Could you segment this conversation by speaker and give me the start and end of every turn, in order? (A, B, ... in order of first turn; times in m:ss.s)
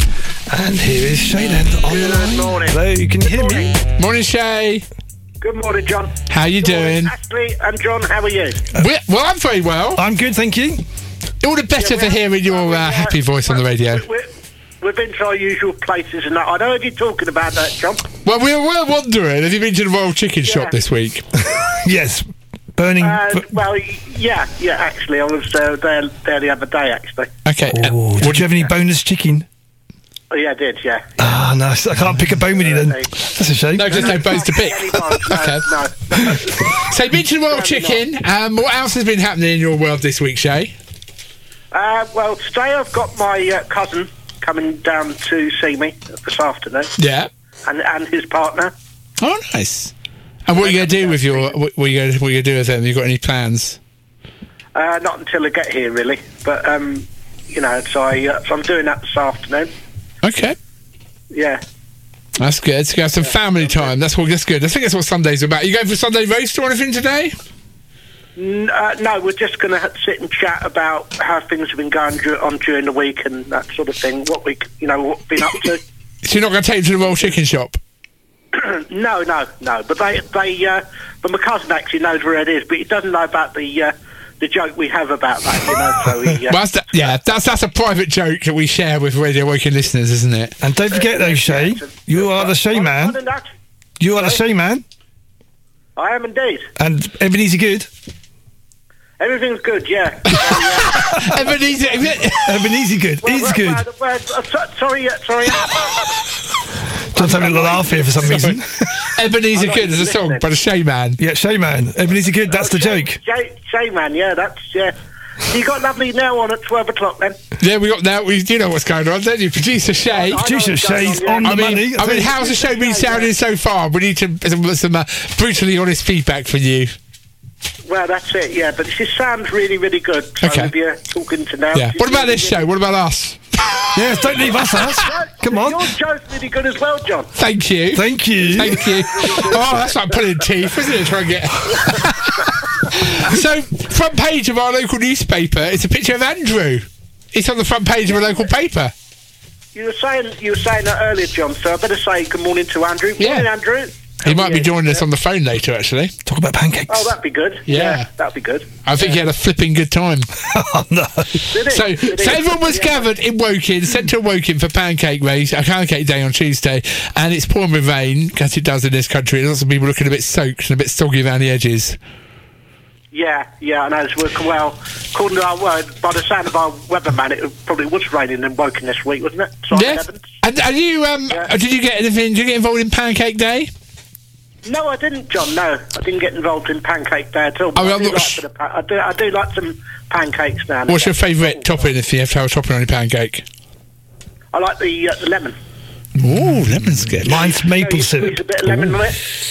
0:00.5-0:03.7 A
0:01.8-0:03.8 B
0:04.0-0:04.9 C
0:05.4-0:08.6 B
0:06.3-0:07.1 C
0:08.7-0:10.0 C
0:10.0-0:10.8 A
0:11.4-0:14.0 C
0:11.8-0:14.3 B
0:14.8-0:18.1 B
0:18.2-0:21.2 C
0:20.4-0:20.8 B
0:21.8-0:23.5 A
0:23.0-0:27.3 B
0:27.4-0:28.5 C
0:27.7-0:29.5 A
0:30.3-0:31.1 B
0:31.2-0:34.1 A
0:32.6-0:33.1 B
0:33.8-0:35.6 C
0:33.8-0:36.8 B
0:36.8-0:40.7 C
0:37.5-0:38.0 B
0:41.7-0:46.9 B
0:47.0-0:47.3 C
0:47.7-0:48.7 B
0:49.2-0:49.9 C
0:50.5-0:53.8 C
0:50.6-0:51.6 B
0:54.8-0:59.7 B
1:00.2-1:00.6 C
1:01.3-1:01.6 B
1:02.4-1:07.4 C
1:03.6-1:03.9 B
1:08.4-1:15.8 B
1:16.2-1:17.8 C
1:18.5-1:26.6 B
1:26.5-1:30.6 C
1:30.6-1:33.2 A
1:30.9-1:33.4 B
1:34.0-1:34.8 A
1:34.1-1:34.4 B
1:36.0-1:36.6 B
1:36.8-1:37.9 A
1:39.2-1:41.6 B
1:40.4-1:42.6 C
1:42.4-1:43.8 A
1:43.2-1:46.2 B
1:47.1-1:48.9 A
1:47.2-1:48.5 B
1:48.2-1:51.2 C
1:49.5-1:50.5 B
1:51.2-1:53.2 A
1:52.5-1:57.4 B
1:57.6-2:00.5 C
2:00.1-2:03.3 B
2:00.4-2:02.3 A
2:01.4-2:06.9 C
2:07.9-2:12.7 B
2:10.4-2:10.7 C
2:11.8-2:14.2 C
2:13.9-2:15.8 A
2:14.2-2:17.3 B
2:17.4-2:28.9 C
2:17.9-2:18.8 A
2:18.4-2:20.2 B
2:21.7-2:22.6 B
2:28.1-2:28.6 B
2:29.7-2:35.0 B
2:33.2-2:33.5 C
2:34.2-2:36.1 C
2:36.2-2:37.1 A
2:36.9-2:39.3 B
2:37.7-2:38.1 C
2:38.8-2:40.3 C
2:40.4-2:41.5 A
2:41.5-2:43.1 B
2:41.7-2:52.0 C
2:53.1-3:00.2 B
2:59.7-3:03.7 C
3:04.6-3:11.9 B
3:07.8-3:08.4 C
3:10.9-3:13.4 C
3:14.5-3:15.6 B
3:16.2-3:17.5 C
3:17.2-3:19.0 A
3:17.5-3:19.4 B